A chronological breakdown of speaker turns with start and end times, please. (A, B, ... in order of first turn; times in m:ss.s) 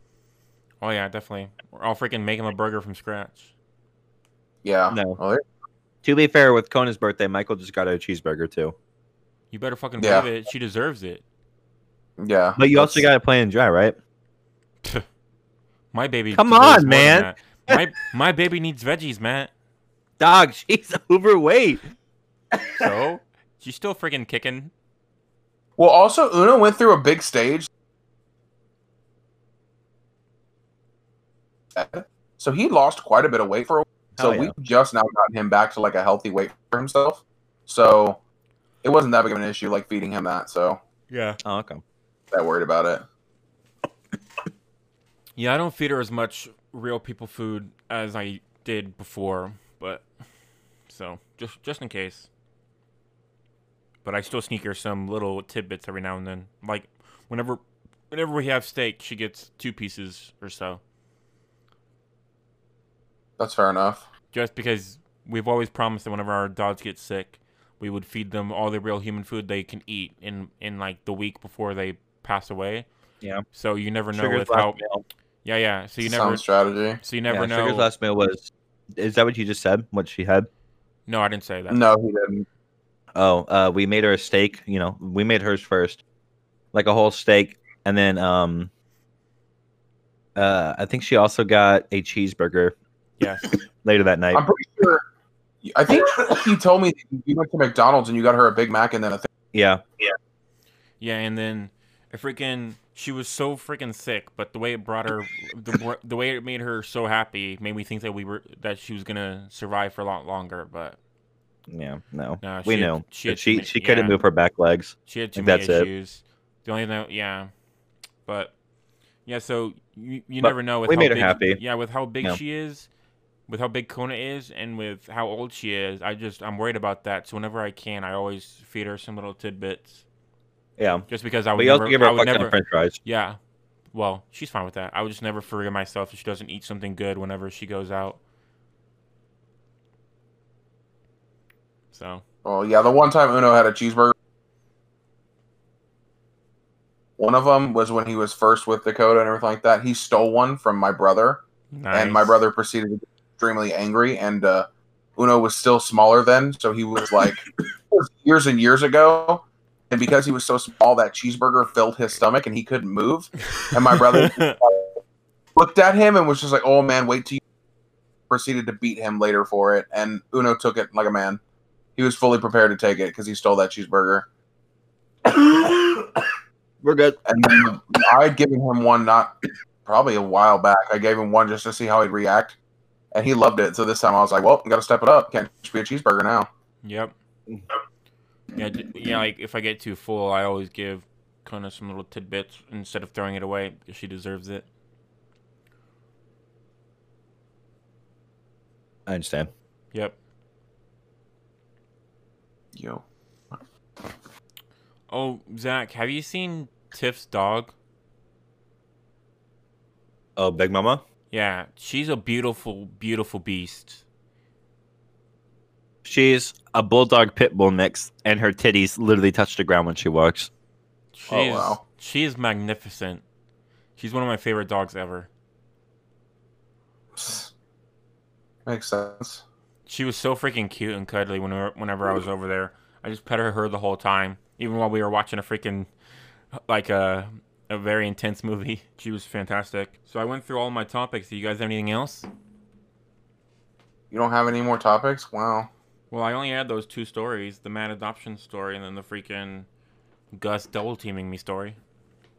0:00.8-0:03.5 A
0:04.6-0:05.4 B
0:04.9-0:05.2 C
0:06.0-0:08.8 C
0:09.5-0:11.2 A
0:10.0-0:10.3 B
0:12.2-0:13.0 B
0:12.6-0:14.0 C
0:15.9-0:19.5 A
0:16.3-0:17.8 C
0:20.2-0:21.8 C
0:22.7-0:24.7 A
0:25.8-0:27.7 B
0:31.7-0:38.2 B
0:34.2-0:34.6 C
0:38.8-0:40.8 B
0:41.1-0:41.4 A
0:41.4-0:41.8 C
0:42.3-0:43.0 B
0:45.4-0:50.1 A
0:50.9-0:52.3 A
0:54.0-1:00.8 A
1:03.4-1:04.1 B
1:04.3-1:12.9 A
1:13.5-1:14.8 A
1:14.1-1:15.0 C
1:15.4-1:16.4 A
1:16.0-1:17.0 B
1:17.0-1:17.9 A
1:17.3-1:20.5 C
1:21.1-1:21.8 A
1:21.7-1:22.4 B
1:23.1-1:26.0 C
1:26.7-1:28.7 C
1:30.4-1:32.7 C
1:33.2-1:33.5 A
1:33.5-1:34.4 C
1:34.3-1:35.0 B
1:35.6-1:39.3 B
1:39.5-1:39.8 C
1:41.0-1:51.0 A
1:51.7-1:55.9 C
1:52.4-1:54.2 A
1:55.0-1:57.5 A
1:58.3-1:58.5 A
1:59.3-2:02.9 A
2:00.4-2:01.6 C
2:03.5-2:10.0 A
2:10.8-2:13.0 C
2:11.1-2:13.4 A
2:13.9-2:18.2 A
2:21.9-2:22.2 A
2:22.4-2:24.1 B
2:27.2-2:45.0 B
2:31.7-2:32.4 A
2:43.9-2:44.6 A
2:45.6-2:47.4 B
2:48.3-2:51.4 B
2:52.0-2:54.3 B
2:55.3-2:56.3 C
2:56.8-2:57.6 C
2:57.3-3:02.6 B
3:03.1-3:06.5 B
3:06.8-3:07.1 A
3:08.6-3:14.6 A
3:19.1-3:19.5 C
3:22.7-3:23.6 B
3:25.1-3:27.7 A
3:30.4-3:31.0 C
3:31.3-3:34.0 A
3:36.0-3:40.5 C
3:41.1-3:43.2 A
3:41.3-3:41.8 B
3:44.0-3:45.3 A
3:47.1-3:47.5 B
3:48.6-3:49.4 B
3:49.9-3:55.9 A
3:56.5-4:02.3 A
4:04.1-4:05.7 B
4:06.1-4:09.7 A
4:10.3-4:11.8 A